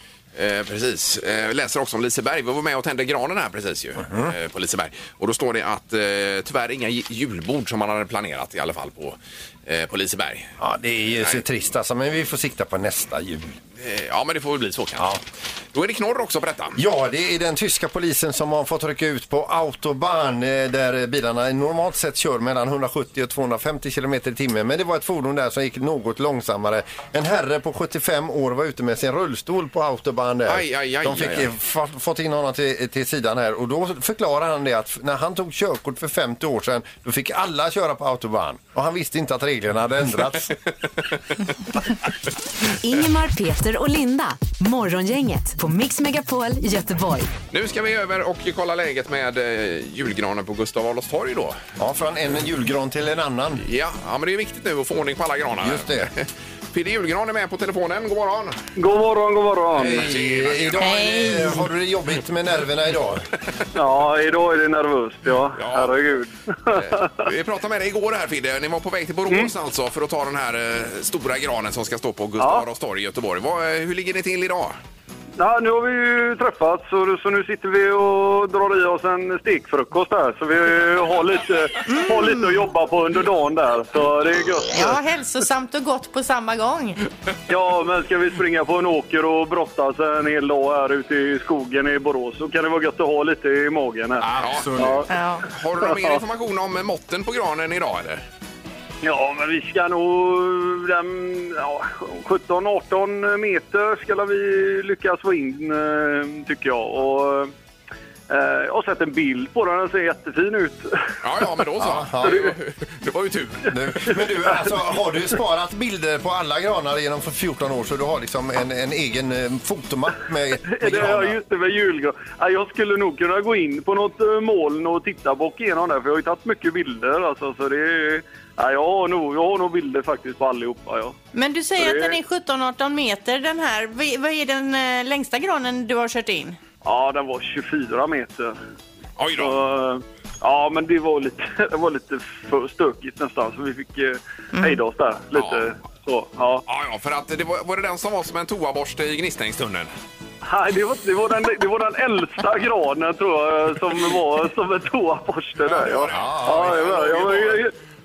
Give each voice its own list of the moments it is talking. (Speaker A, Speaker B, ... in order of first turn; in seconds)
Speaker A: 0.3-10.5, 13.8-15.1, 15.7-16.8, 30.5-31.5, 47.5-51.6, 53.6-58.6, 59.8-60.9, 65.5-66.0, 66.7-74.8, 94.2-98.2, 111.2-114.0, 139.2-139.6, 145.3-145.7, 146.7-149.9, 155.6-157.7
Speaker B: 4.0-4.3, 10.6-13.6, 16.8-40.5, 51.8-53.6, 55.6-56.1, 59.8-63.3, 94.4-94.9, 111.8-112.4, 113.7-121.4, 156.1-156.8
Speaker C: 42.8-47.3
Speaker D: 58.8-60.1, 63.7-67.3, 69.3-69.5, 72.4-72.6, 75.4-84.9, 87.5-95.1, 95.8-96.2, 99.0-107.5, 108.3-111.2, 112.2-112.5, 114.4-114.7, 120.7-131.2, 131.8-132.2, 136.8-138.6, 139.3-146.6, 150.4-157.7
Speaker E: 60.8-61.6, 81.9-82.5, 84.7-87.0, 95.1-95.5, 131.3-136.6, 144.5-144.8